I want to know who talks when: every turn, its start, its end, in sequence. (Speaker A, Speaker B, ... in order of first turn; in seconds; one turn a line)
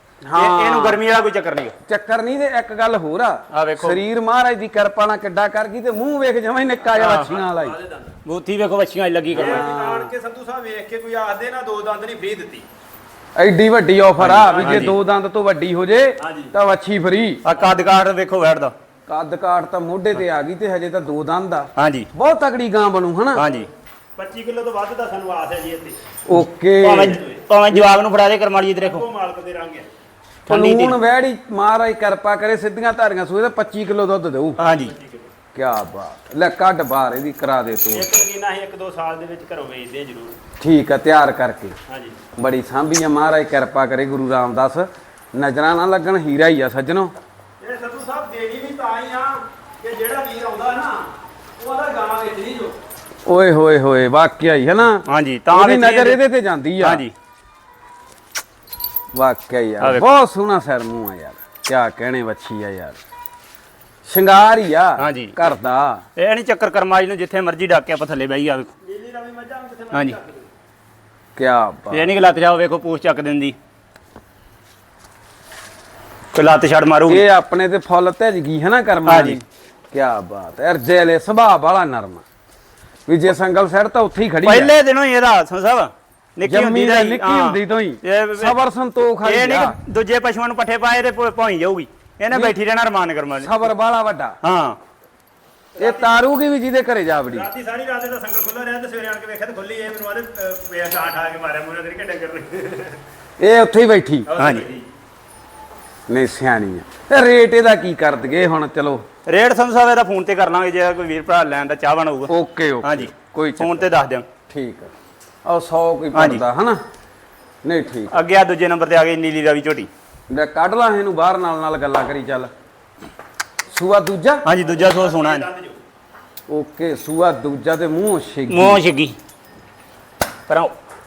Speaker A: 0.2-1.0
Speaker B: 0.3-1.7
Speaker A: 1.9-7.8
Speaker B: 3.5-4.0
Speaker B: 7.0-7.3
Speaker C: 7.2-8.1
Speaker B: 8.2-9.7
Speaker A: 9.3-10.1
Speaker C: 9.3-12.7
Speaker A: 13.3-17.4
Speaker B: 14.2-14.9
Speaker C: 14.4-14.9
Speaker C: 16.2-16.5
Speaker B: 17.4-18.7
Speaker A: 19.1-23.4
Speaker B: 21.8-22.1
Speaker B: 23.3-23.7
Speaker C: 23.4-26.0
Speaker A: 26.3-27.2
Speaker B: 26.8-29.1
Speaker C: 27.0-27.4
Speaker C: 28.8-29.9
Speaker B: 30.5-31.0
Speaker A: 30.5-34.6
Speaker B: 34.6-34.9
Speaker C: 34.7-35.3
Speaker A: 35.5-38.2
Speaker C: 37.9-40.4
Speaker A: 40.6-41.8
Speaker C: 41.9-42.2
Speaker A: 42.4-47.1
Speaker C: 47.6-52.8
Speaker A: 53.2-57.0
Speaker B: 55.0-56.2
Speaker B: 56.8-57.1
Speaker A: 59.1-63.0
Speaker A: 64.0-66.0
Speaker B: 65.0-65.4
Speaker B: 66.2-68.7
Speaker C: 68.8-70.5
Speaker B: 69.9-70.2
Speaker A: 71.3-72.1
Speaker B: 71.9-73.5
Speaker B: 76.3-77.2
Speaker A: 77.1-82.2
Speaker B: 79.0-79.4
Speaker A: 83.1-84.7
Speaker B: 84.4-88.5
Speaker A: 86.4-89.8
Speaker B: 89.2-93.5
Speaker A: 93.4-94.4
Speaker B: 94.4-94.8
Speaker C: 95.7-96.2
Speaker A: 95.8-97.5
Speaker C: 97.3-103.0
Speaker A: 103.4-104.3
Speaker C: 104.3-104.9
Speaker B: 104.4-104.7
Speaker A: 106.1-109.0
Speaker B: 109.2-112.3
Speaker A: 112.3-113.9
Speaker B: 112.8-114.2
Speaker A: 114.5-114.9
Speaker A: 115.4-116.8
Speaker B: 116.1-116.4
Speaker A: 117.6-118.2
Speaker B: 118.1-119.9
Speaker A: 120.3-122.5
Speaker A: 123.7-124.5
Speaker B: 124.4-125.5
Speaker C: 124.6-125.8
Speaker A: 126.5-128.8
Speaker B: 128.5-129.2
Speaker B: 130.5-130.7